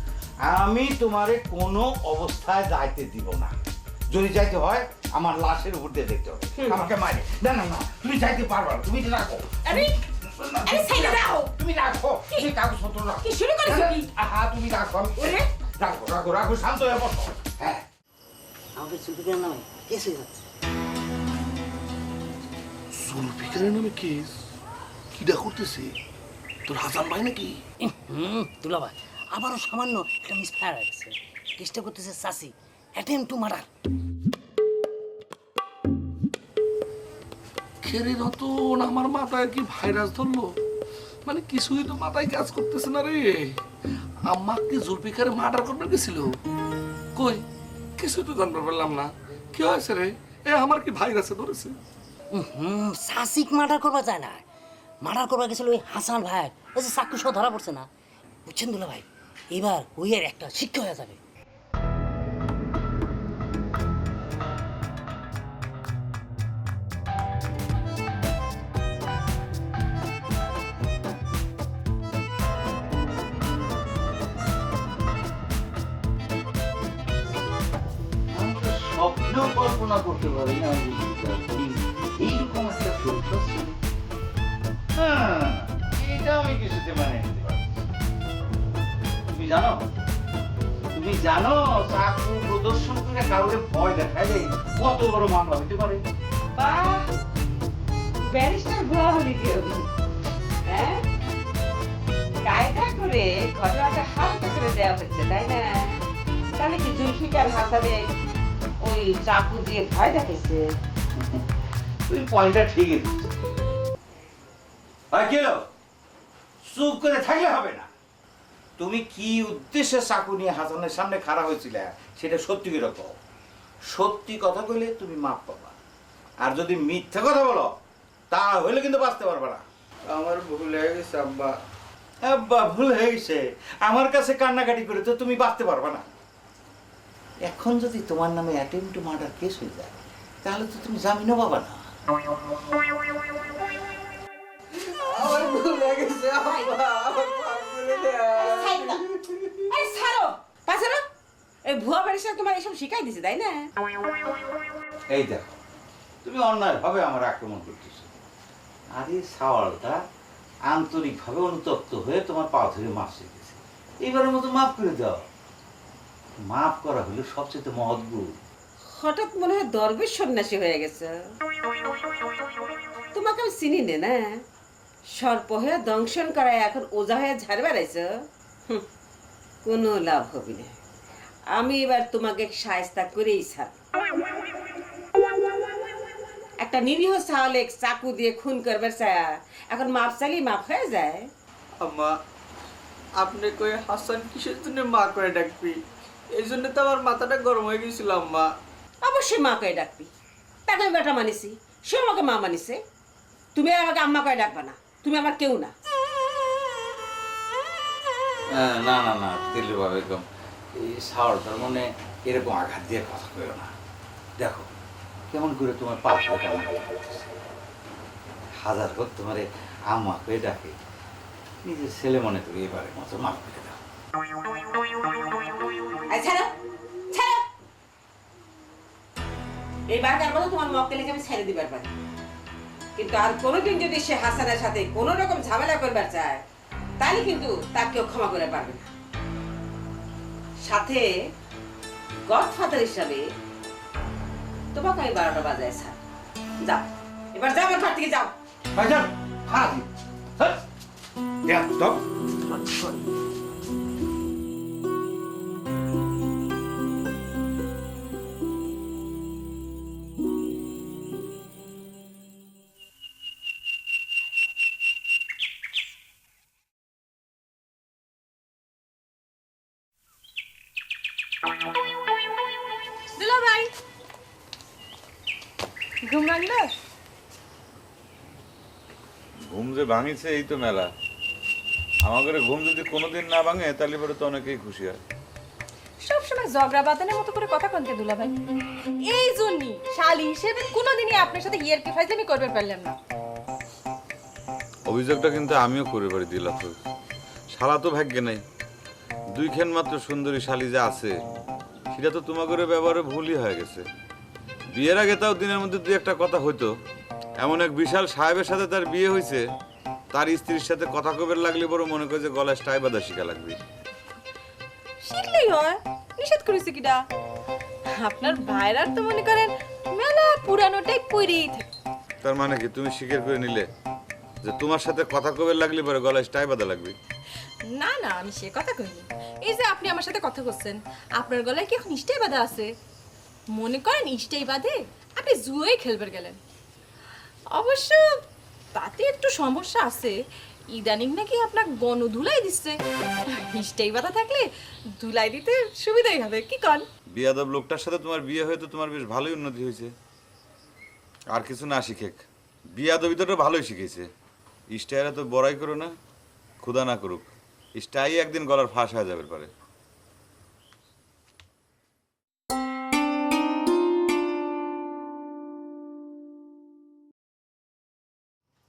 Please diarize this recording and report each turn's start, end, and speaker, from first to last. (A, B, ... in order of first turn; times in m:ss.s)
0:00.4-0:03.5 A
0:04.1-0:09.7 A
0:06.6-0:06.9 B
0:09.6-0:10.0 B
0:10.4-0:17.8 A
0:10.6-0:11.5 B
0:13.2-0:14.0 C
0:15.2-0:15.4 B
0:18.8-0:20.4 D
0:23.0-0:24.3 E
0:25.2-0:25.9 E
0:26.7-0:27.6 E
0:27.8-0:33.7 D
0:37.8-0:40.5 E
0:41.3-0:43.6 E
0:44.2-0:46.4 E
0:47.2-0:47.4 E
0:48.0-0:51.8 E
0:52.3-0:54.4 D
0:55.0-0:57.9 D
0:58.5-1:01.2 D
1:18.3-1:23.8 A
1:25.0-1:27.6 A
1:29.3-1:29.9 A
1:30.9-1:36.0 A
1:36.6-1:37.1 B
1:38.3-1:39.9 B
1:40.7-1:41.0 B
1:42.4-1:46.0 B
1:46.6-1:48.1 B
1:48.8-1:50.7 B
1:52.1-1:53.2 A
1:55.1-1:55.6 A
1:56.7-1:57.9 A
1:58.8-2:03.2 A
2:03.9-2:05.8 A
2:06.4-2:07.7 A
2:08.3-2:09.6 A
2:10.1-2:11.6 F
2:12.2-2:16.0 A
2:17.4-2:21.8 A
2:25.2-2:28.7 F
2:26.4-2:26.8 B
2:28.3-2:29.1 B
2:29.7-2:31.0 B
2:31.7-2:33.6 B
2:35.1-2:35.6 A
2:36.2-2:38.2 A
2:38.9-2:40.0 A
2:40.7-2:45.2 A
2:46.5-2:48.3 A
2:48.9-2:51.1 B
2:53.1-2:54.4 B
2:55.1-2:58.1 B
2:59.6-3:00.7 B
3:01.5-3:03.8 B
3:06.6-3:11.3 B
3:11.8-3:12.2 F
3:13.2-3:18.5 F
3:19.0-3:20.1 B
3:20.7-3:22.8 B
3:23.6-3:25.7 B
3:28.5-3:33.7 A
3:34.4-3:34.7 A
3:35.3-3:37.4 A
3:38.6-3:40.7 A
3:41.6-3:43.8 A
3:46.1-3:46.5 B
3:47.1-3:47.4 B
3:49.9-3:51.9 B
3:53.0-3:56.4 B
3:57.0-3:58.9 B
4:00.6-4:01.1 B
4:02.3-4:03.2 B
4:04.7-4:06.0 B
4:06.6-4:08.3 B
4:08.8-4:09.8 A
4:11.5-4:11.9 A
4:33.2-4:33.7 C
4:36.1-4:36.7 C
4:39.5-4:40.9 G
4:42.0-4:45.0 G
4:46.0-4:48.3 C
4:49.0-4:52.9 C
4:54.9-4:56.8 G
4:57.5-4:58.4 G
4:59.4-5:01.1 G
5:01.9-5:03.8 G
5:04.7-5:06.7 G
5:07.4-5:09.4 G
5:10.1-5:13.6 G
5:15.0-5:17.1 C
5:18.0-5:21.7 C
5:22.2-5:23.7 G
5:24.4-5:26.9 G
5:27.7-5:32.7 C
5:33.5-5:36.4 C
5:37.5-5:38.1 C
5:38.8-5:40.2 C
5:40.7-5:42.8 C
5:43.4-5:44.5 C
5:45.0-5:46.8 C
5:47.1-5:49.9 G
5:51.3-5:52.2 G
5:52.8-5:54.1 G
5:54.7-5:55.9 G
5:56.6-5:59.5 G